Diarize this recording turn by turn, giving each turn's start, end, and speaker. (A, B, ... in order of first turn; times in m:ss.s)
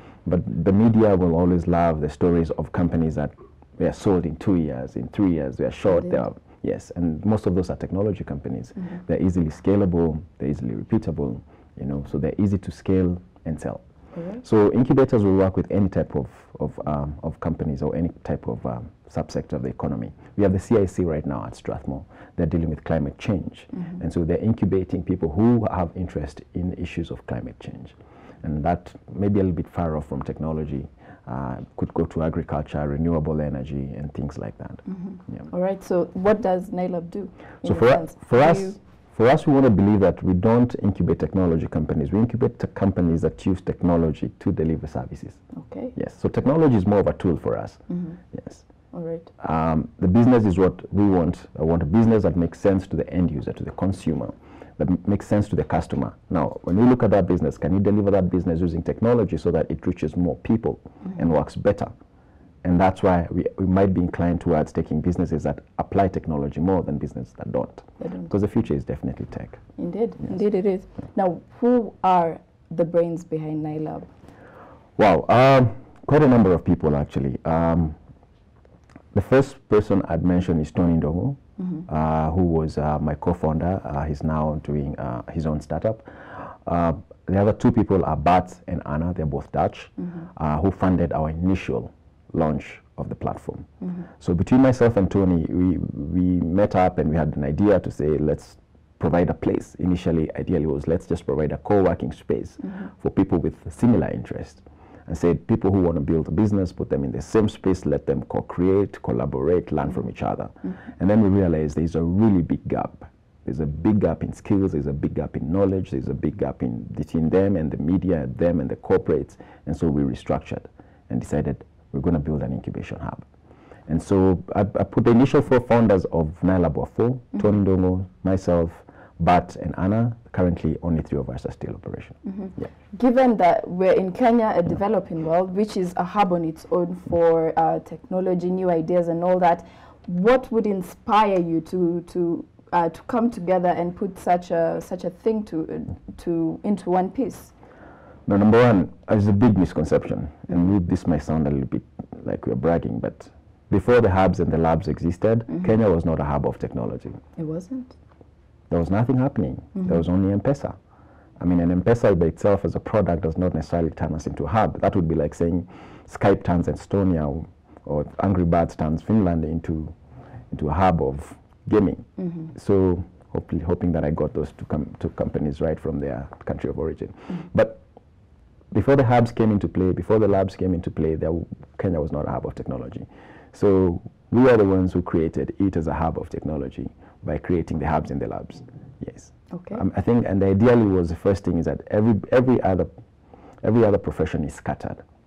0:00.2-0:13.8 A
0:05.9-0:06.2 B
0:14.1-0:14.4 B
0:14.4-0:35.4 A
0:34.9-0:38.8 B
0:37.6-0:45.4 A
0:45.5-0:45.9 B
0:46.0-0:47.8 A
0:47.9-0:48.2 B
0:48.3-0:48.6 A
0:48.9-0:49.3 B
0:49.4-1:01.9 A
1:02.6-1:09.6 A
1:08.0-1:08.3 B
1:09.8-1:14.1 B
1:15.0-1:18.0 A
1:19.1-1:33.6 A
1:34.2-2:03.2 A
2:03.9-2:12.6 A
2:12.2-2:27.5 B
2:28.2-2:37.2 A
2:37.4-2:38.0 B
2:38.7-2:40.7 A
2:41.4-2:49.9 A
2:50.5-2:57.8 A
2:58.7-3:12.9 A
3:09.5-3:09.8 B
3:13.6-3:15.0 A